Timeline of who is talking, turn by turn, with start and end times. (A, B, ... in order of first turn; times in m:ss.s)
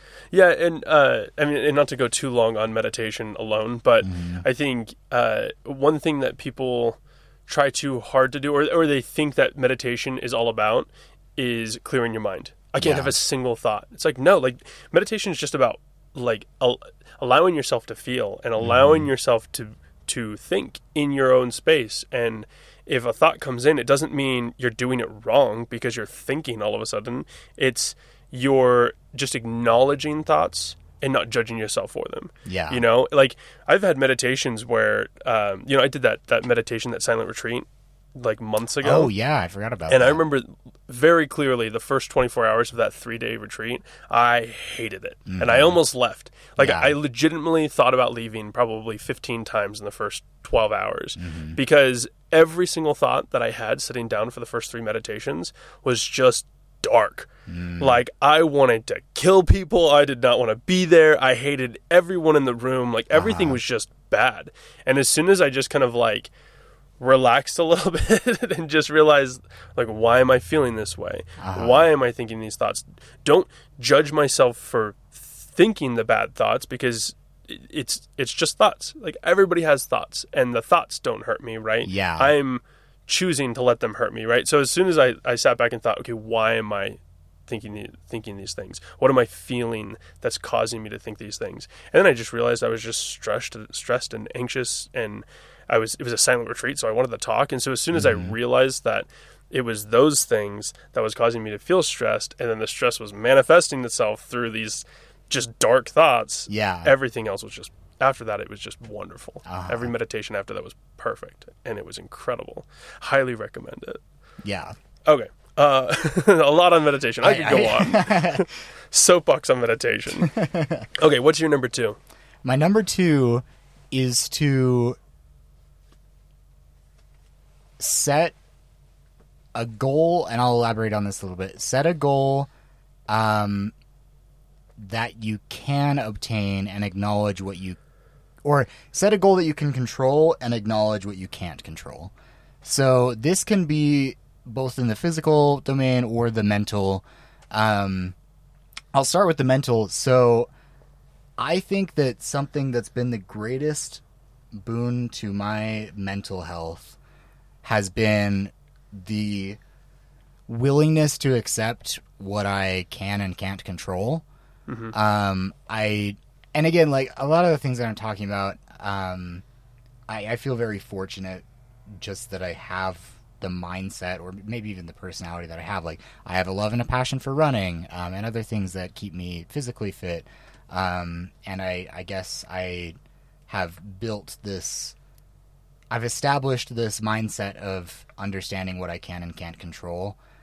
0:00.3-0:39.1 A
0:04.0-0:04.4 B
0:12.8-0:13.2 B
0:18.6-0:19.1 B
0:32.4-0:32.8 B
0:38.8-0:40.2 B
0:39.9-1:06.3 A
0:45.3-0:45.8 B
0:46.6-0:47.0 B
0:51.2-0:51.6 B
0:57.5-0:58.0 B
1:03.1-1:03.6 B
1:07.0-1:54.0 A
1:11.4-1:11.9 B
1:21.8-1:22.3 B
1:37.9-1:38.3 B
1:46.5-1:46.9 B
1:49.4-1:49.9 B
1:54.4-1:54.7 B
1:55.1-2:00.4 A
1:57.2-1:58.4 B
2:00.2-2:00.9 B
2:01.0-2:02.0 A
2:02.4-2:05.0 B
2:07.8-2:08.4 B
2:09.5-2:12.5 B
2:13.1-2:13.7 B
2:14.8-2:17.8 B
2:18.4-2:28.1 B
2:28.9-2:30.5 B
2:31.4-2:37.0 B
2:37.6-2:39.6 B
2:40.5-2:44.2 B
2:44.7-2:44.9 A
2:44.9-2:49.4 B
2:50.1-3:03.0 B
3:03.5-3:05.0 B
3:05.9-3:10.2 B